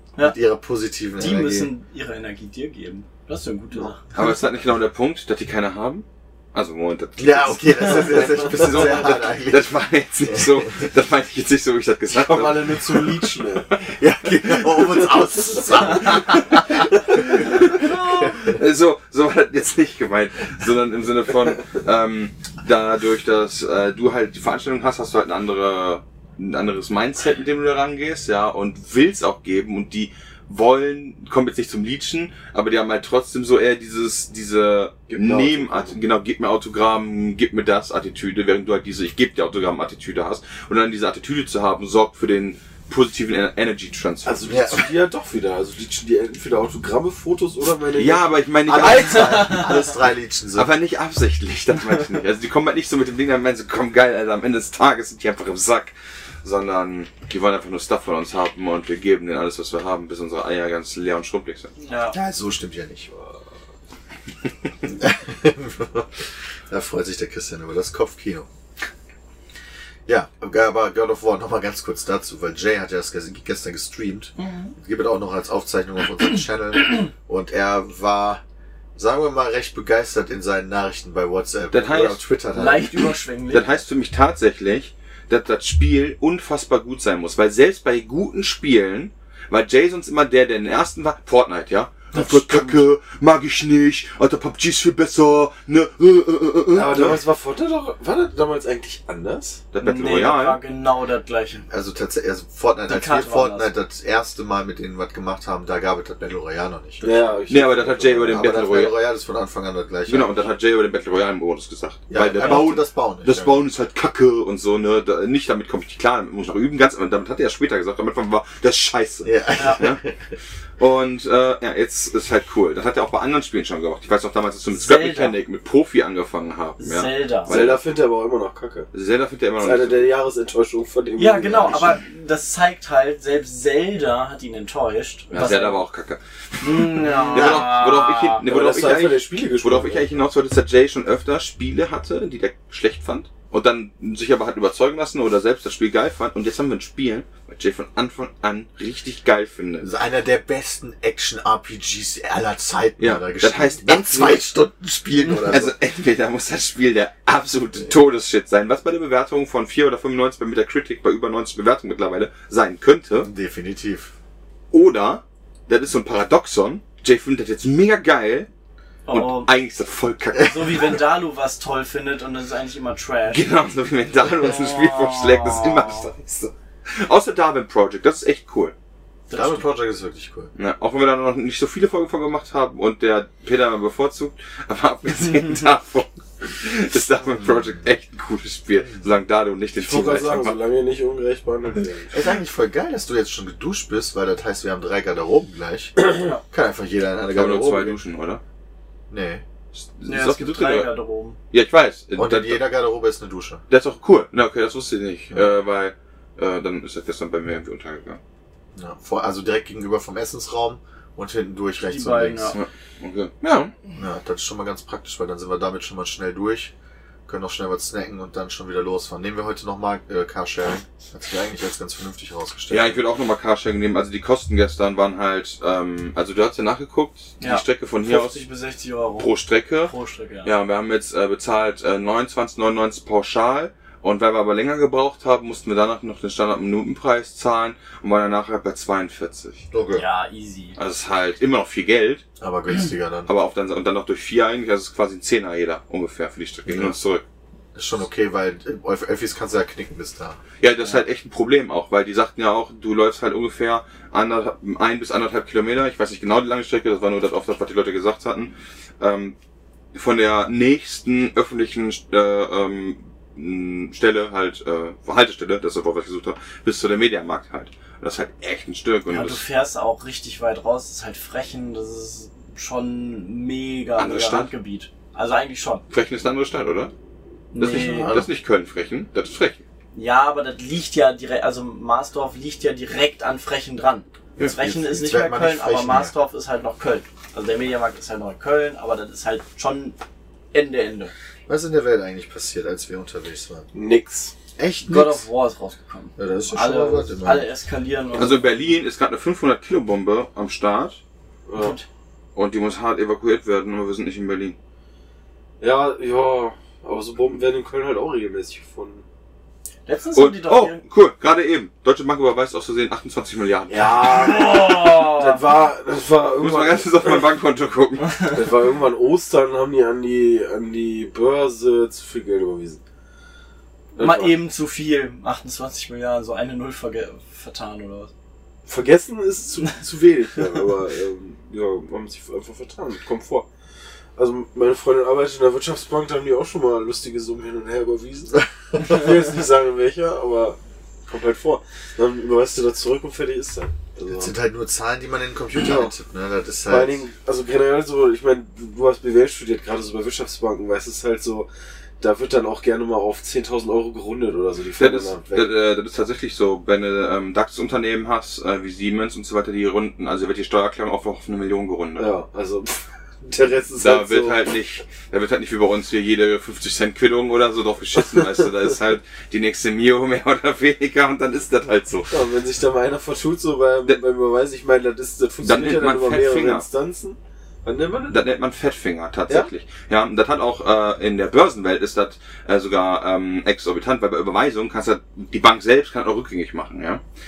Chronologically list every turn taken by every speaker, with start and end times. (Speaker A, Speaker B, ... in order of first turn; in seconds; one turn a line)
Speaker A: 0.2-1.7
Speaker B: 1.2-4.0
Speaker C: 4.1-13.3
Speaker A: 7.2-9.7
Speaker A: 10.3-10.7
Speaker D: 12.1-13.7
Speaker A: 13.9-18.6
Speaker C: 15.9-44.8
Speaker D: 35.1-35.9
Speaker D: 44.2-48.4
Speaker A: 44.5-44.9
Speaker C: 47.9-49.8
Speaker A: 48.6-50.7
Speaker C: 50.5-61.7
Speaker B: 61.8-62.1
Speaker A: 62.1-63.1
Speaker D: 63.1-63.4
Speaker A: 64.9-66.1
Speaker A: 66.7-68.5
Speaker A: 70.1-78.4
Speaker B: 74.4-74.7
Speaker A: 79.0-83.1
Speaker C: 81.7-82.2
Speaker B: 82.5-83.8
Speaker C: 83.5-97.2
Speaker A: 92.1-92.6
Speaker B: 92.2-92.5
Speaker D: 96.7-99.6
Speaker C: 99.7-100.6
Speaker B: 99.8-101.6
Speaker A: 101.7-107.4
Speaker B: 102.9-103.7
Speaker D: 107.0-108.3
Speaker C: 107.5-109.0
Speaker A: 108.1-110.5
Speaker C: 110.1-120.0
Speaker A: 112.1-113.6
Speaker A: 119.2-120.2
Speaker B: 119.5-119.8
Speaker C: 120.8-127.9
Speaker B: 124.7-125.3
Speaker B: 126.8-127.5
Speaker D: 127.5-128.9
Speaker C: 128.9-130.1
Speaker D: 129.6-131.9
Speaker B: 131.2-135.8
Speaker C: 135.3-149.9
Speaker B: 136.6-138.4
Speaker A: 137.3-137.7
Speaker D: 138.4-140.1
Speaker A: 149.8-155.7
Speaker C: 153.0-154.5
Speaker C: 155.4-163.3
Speaker A: 163.2-164.1
Speaker C: 164.7-168.5
Speaker B: 169.1-169.5
Speaker C: 169.1-171.0
Speaker B: 170.4-173.5
Speaker C: 173.3-178.7
Speaker B: 174.4-176.1
Speaker B: 179.3-179.7
Speaker A: 179.3-180.5
Speaker C: 180.6-190.6
Speaker A: 187.4-187.7
Speaker D: 189.8-192.2
Speaker A: 192.1-198.0
Speaker C: 197.3-198.4
Speaker A: 199.1-199.4
Speaker C: 199.7-200.9
Speaker B: 200.1-201.4
Speaker C: 201.5-202.6
Speaker A: 202.2-203.6
Speaker C: 203.7-208.2
Speaker A: 208.7-212.6
Speaker B: 211.8-212.6
Speaker C: 212.5-213.7
Speaker A: 213.9-216.7
Speaker A: 217.3-223.0
Speaker C: 222.7-228.4
Speaker B: 227.4-229.3
Speaker C: 229.2-229.9
Speaker B: 229.8-230.5
Speaker C: 230.4-239.7
Speaker A: 239.7-240.0
Speaker B: 239.9-240.8
Speaker C: 240.8-242.2
Speaker A: 242.4-243.3
Speaker C: 243.3-247.2
Speaker A: 246.7-246.9
Speaker A: 247.7-250.4
Speaker C: 250.6-259.4
Speaker C: 259.9-269.4
Speaker B: 269.1-275.8
Speaker C: 273.9-274.5
Speaker C: 275.9-276.9
Speaker B: 277.5-278.1
Speaker C: 277.6-279.6
Speaker A: 277.8-278.3
Speaker B: 279.9-290.0
Speaker A: 284.4-286.1
Speaker B: 290.5-291.1
Speaker A: 291.5-293.7
Speaker D: 293.7-294.3
Speaker A: 294.6-295.2
Speaker B: 294.9-298.6
Speaker A: 296.2-297.5
Speaker C: 298.1-301.0
Speaker D: 301.5-301.8
Speaker B: 301.6-301.8
Speaker C: 302.3-304.6
Speaker D: 305.6-309.0
Speaker B: 309.9-310.8
Speaker C: 310.1-314.7
Speaker D: 313.7-317.3
Speaker B: 314.0-315.5
Speaker C: 316.4-318.2
Speaker D: 318.2-322.8
Speaker D: 323.9-324.4
Speaker B: 324.0-328.1
Speaker D: 328.6-333.4
Speaker D: 334.2-344.3
Speaker A: 344.1-347.0
Speaker D: 345.6-345.9
Speaker D: 346.7-351.5
Speaker D: 352.0-355.5
Speaker C: 354.8-362.1
Speaker D: 362.0-364.4
Speaker C: 363.8-372.1
Speaker D: 372.1-378.2
Speaker C: 375.4-376.6
Speaker C: 378.1-387.0